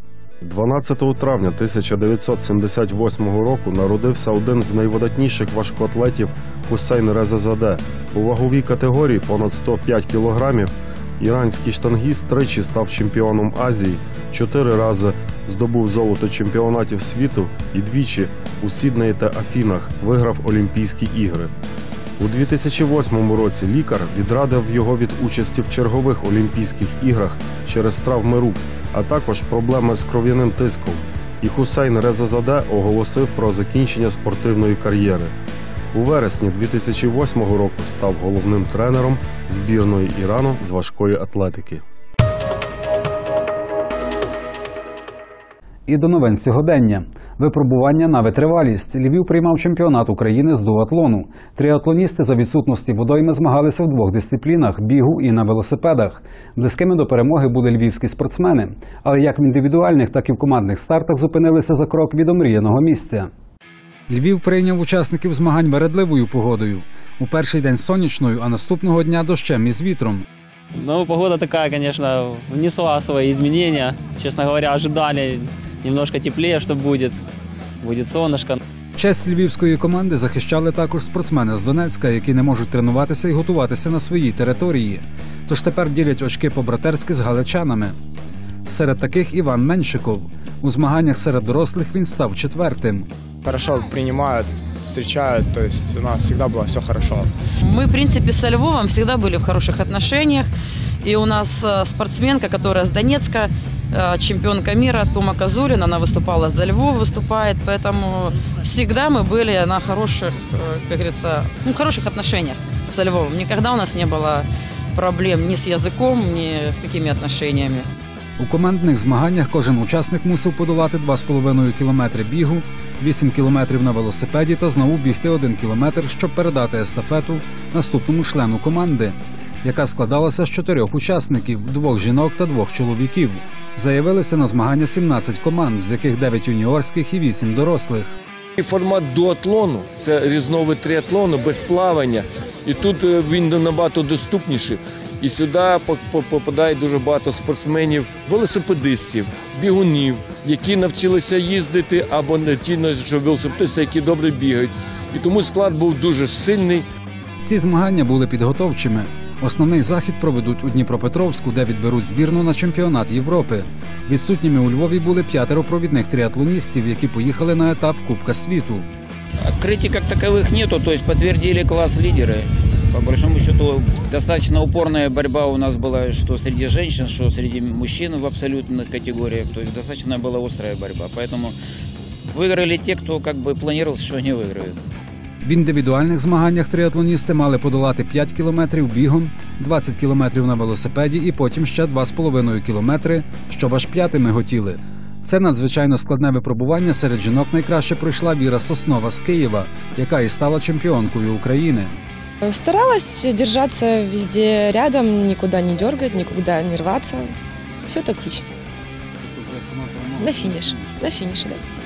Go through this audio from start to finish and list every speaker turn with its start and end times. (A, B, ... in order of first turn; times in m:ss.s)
0:00.4-0:21.5 A
0:22.2-0:35.3 A
0:35.9-0:41.8 A
0:45.9-1:03.3 B
1:04.1-1:10.2 B
1:10.8-1:17.2 C
1:17.8-1:18.6 C
1:18.9-1:27.9 B
1:28.6-1:33.1 B
1:33.4-1:37.3 D
1:37.6-1:40.5 E
1:41.0-1:57.8 E
1:58.4-2:18.1 B
2:18.6-2:36.8 F
2:37.4-2:48.8 B
2:49.5-3:01.6 G
3:02.3-3:04.8 G
3:05.4-3:22.0 B
3:22.4-3:27.3 H
3:27.8-3:28.5 H
3:29.2-3:31.0 B
3:30.2-3:31.6 H